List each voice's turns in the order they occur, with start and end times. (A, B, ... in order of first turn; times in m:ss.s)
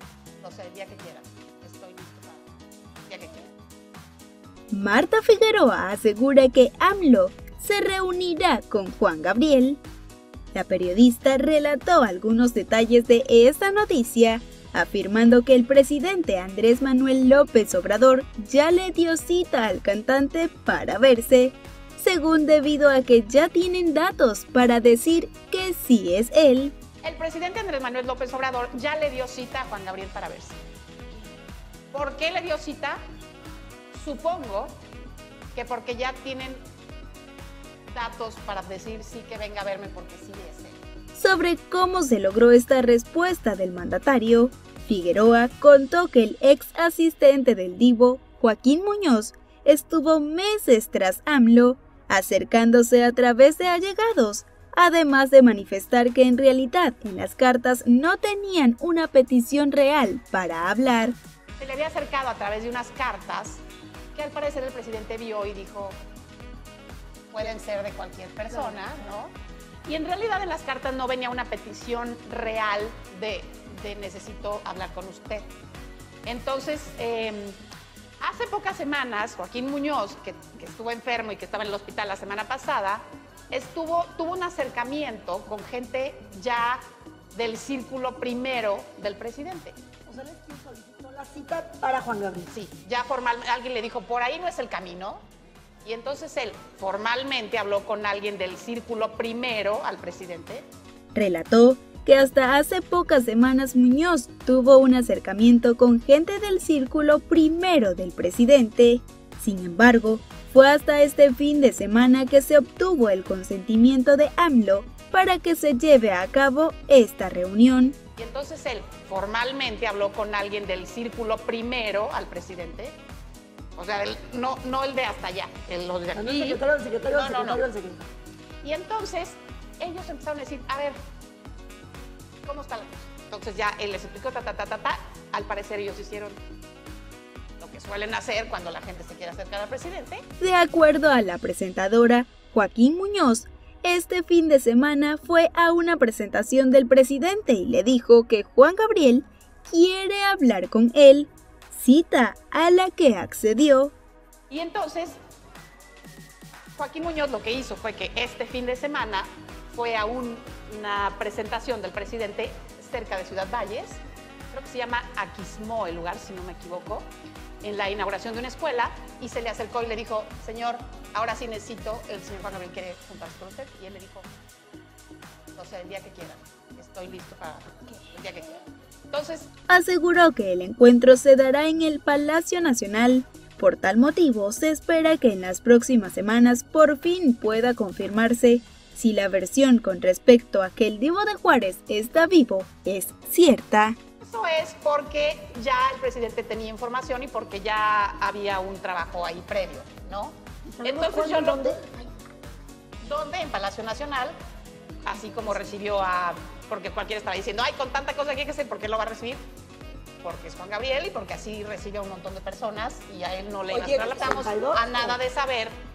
0:00.4-0:02.5 A
0:03.0-0:03.5 A
0:04.7-0:09.8 B
0:10.5-0:26.8 B
0:27.0-0:30.6 A
0:31.9-0:33.0 A
0:33.9-0:34.8 A
0:35.5-0:36.6 A
0:37.9-0:40.8 A
0:41.2-1:01.2 B
1:01.6-1:06.0 A
1:07.3-1:09.3 A
1:09.8-1:15.5 A
1:16.2-1:17.6 A
1:18.2-1:26.8 A
1:27.3-1:29.8 A
1:30.1-1:32.5 C
1:32.5-1:35.2 A
1:35.8-1:40.6 A
1:41.1-1:58.0 B
1:58.2-2:03.0 A
2:03.8-2:06.6 A
2:06.1-2:08.1 C
2:07.1-2:07.6 A
2:08.6-2:11.0 A
2:12.4-2:16.4 A
2:17.6-2:20.2 A
2:20.4-2:33.9 B
2:34.5-2:35.2 A
2:36.8-2:44.0 A
2:44.5-2:47.1 A
2:47.6-2:54.3 A
2:55.6-2:59.5 A
2:59.7-3:14.0 B
3:14.2-3:21.8 A
3:20.7-3:21.8 C
3:23.0-3:24.4 A
3:25.0-3:29.4 A
3:30.2-3:35.7 A
3:33.7-3:35.2 C